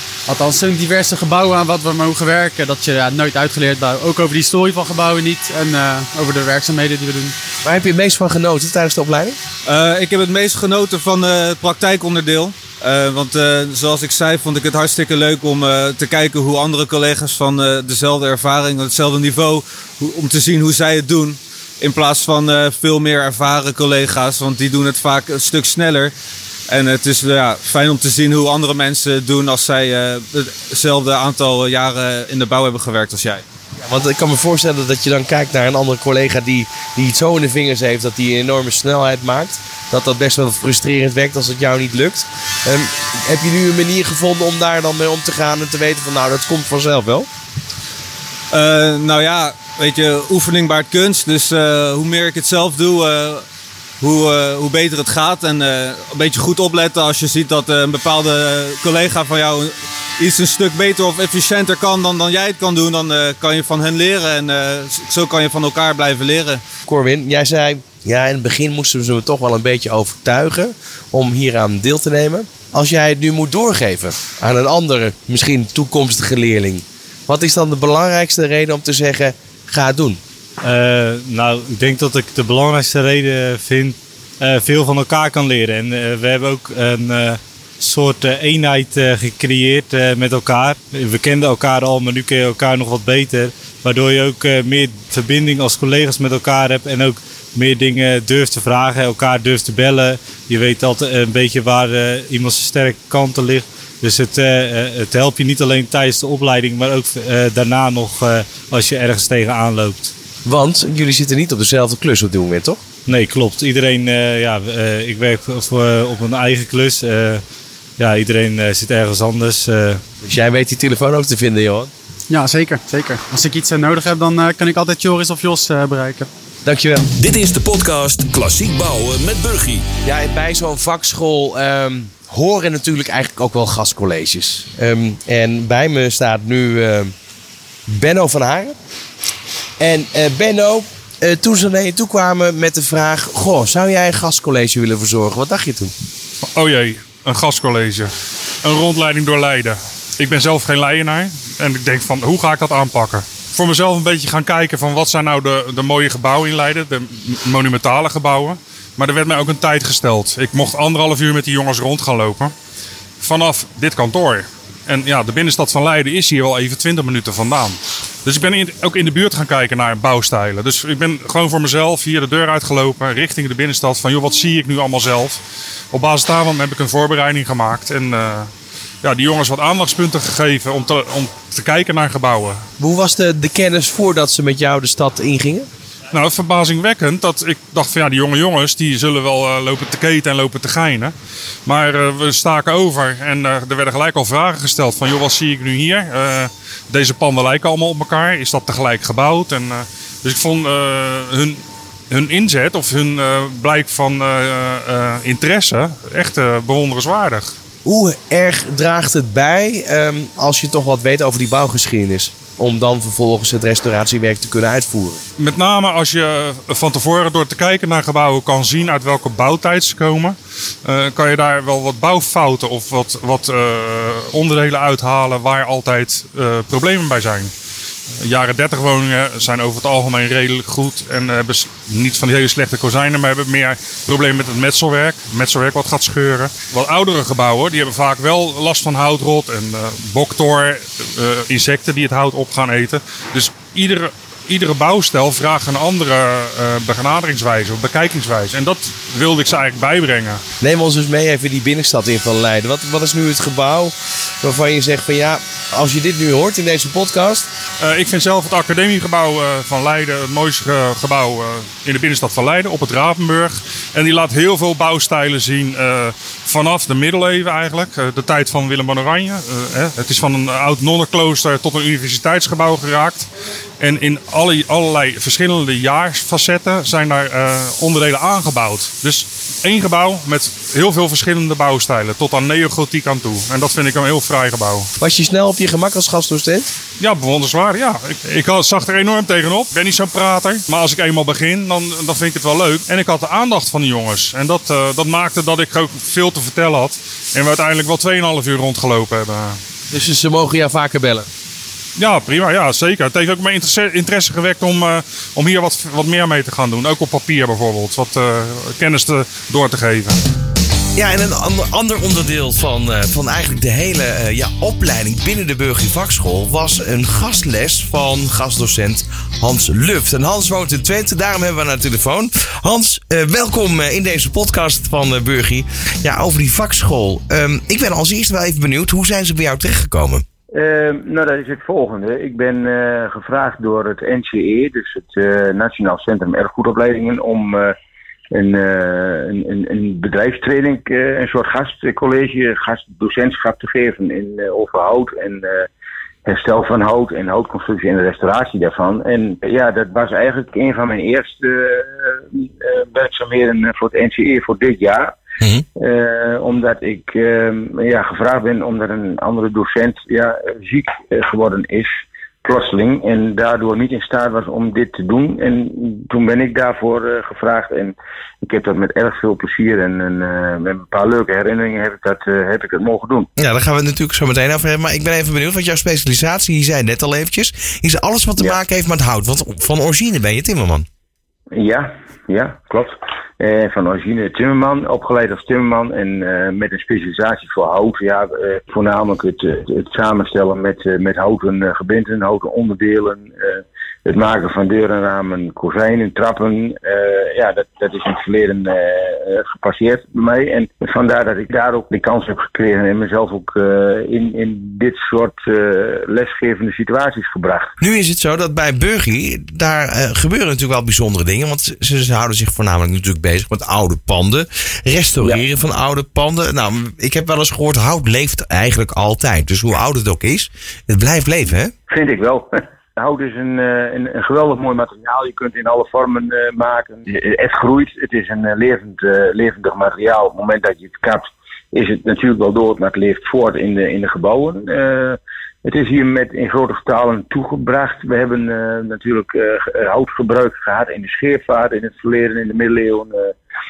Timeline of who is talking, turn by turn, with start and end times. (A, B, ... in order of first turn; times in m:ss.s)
0:00.3-0:07.4 A
0:07.6-0:09.4 B
0:09.7-0:26.1 C
0:26.7-0:33.4 C
0:33.8-0:47.3 B
0:48.5-0:53.4 C
0:54.0-1:06.6 C
1:06.9-1:20.2 B
1:20.6-1:50.1 D
1:50.4-1:52.8 B
1:53.1-1:57.4 D
1:58.0-2:00.0 D
2:00.2-2:01.9 B
2:02.3-2:06.3 A
2:06.6-2:07.1 B
2:07.2-2:09.8 E
2:10.0-2:17.1 B
2:17.9-2:18.8 B
2:19.8-2:25.9 B
2:26.5-2:28.1 F
2:28.6-2:42.5 F
2:43.2-2:55.4 F
2:55.9-2:58.5 F
2:59.0-3:02.6 F
3:02.8-3:05.7 B
3:06.1-3:11.1 F
3:11.7-3:27.5 F
3:27.8-3:35.2 B
3:35.4-3:47.5 F
3:48.2-4:10.4 F
4:10.6-4:17.5 B
4:17.8-4:33.3 F
4:33.8-4:44.9 F
4:45.0-4:46.7 B
4:47.0-4:59.6 F
4:59.9-5:01.3 B
5:02.0-5:10.2 F
5:11.0-5:30.2 G
5:30.5-5:37.7 H
5:38.3-5:45.7 H
5:46.2-5:55.2 H
5:55.8-6:13.3 H
6:13.4-6:20.9 G
6:21.5-6:47.7 H
6:47.8-7:01.7 G
7:01.9-7:23.3 H